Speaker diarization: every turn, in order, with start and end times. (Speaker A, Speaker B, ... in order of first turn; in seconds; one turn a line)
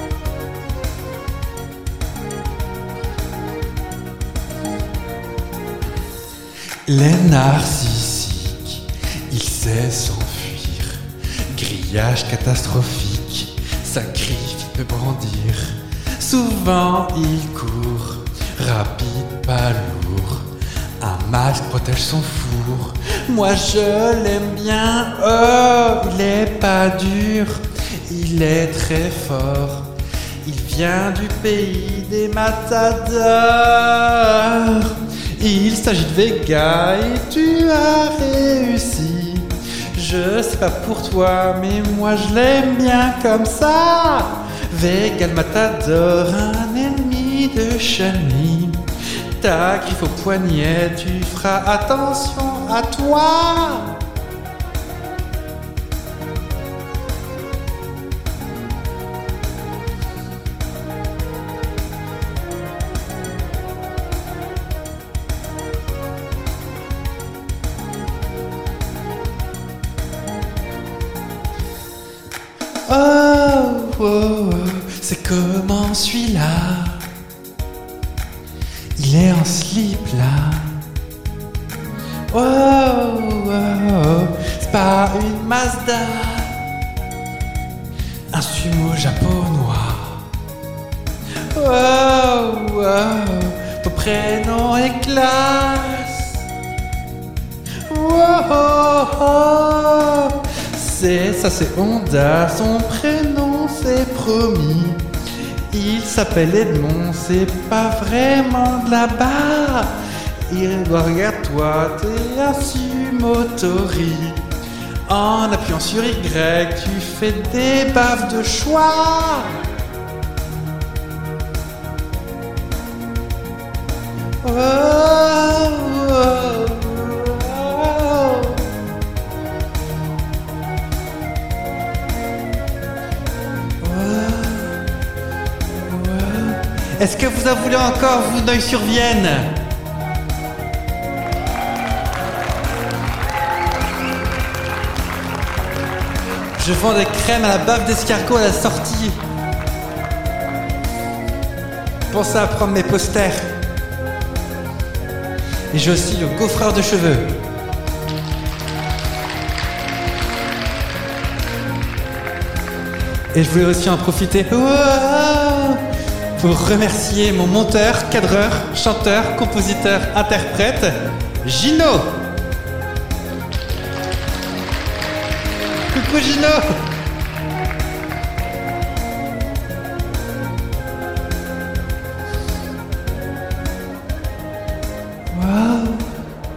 Speaker A: 6.9-29.9
Speaker A: 30.4-54.0
Speaker A: 72.9-77.1
Speaker A: 79.0-80.8
Speaker A: 82.3-86.6
Speaker A: 88.3-90.3
Speaker A: 91.5-96.4
Speaker A: 97.9-105.0
Speaker A: 105.7-114.4
Speaker A: 115.1-119.6
Speaker A: 124.4-128.7
Speaker A: 133.8-134.8
Speaker A: 135.7-139.6
Speaker A: 146.6-149.2
Speaker A: 152.1-153.5
Speaker A: 155.7-157.3
Speaker A: 163.3-165.8
Speaker A: 166.4-172.2
Speaker A: 175.9-176.8
Speaker A: 185.3-186.1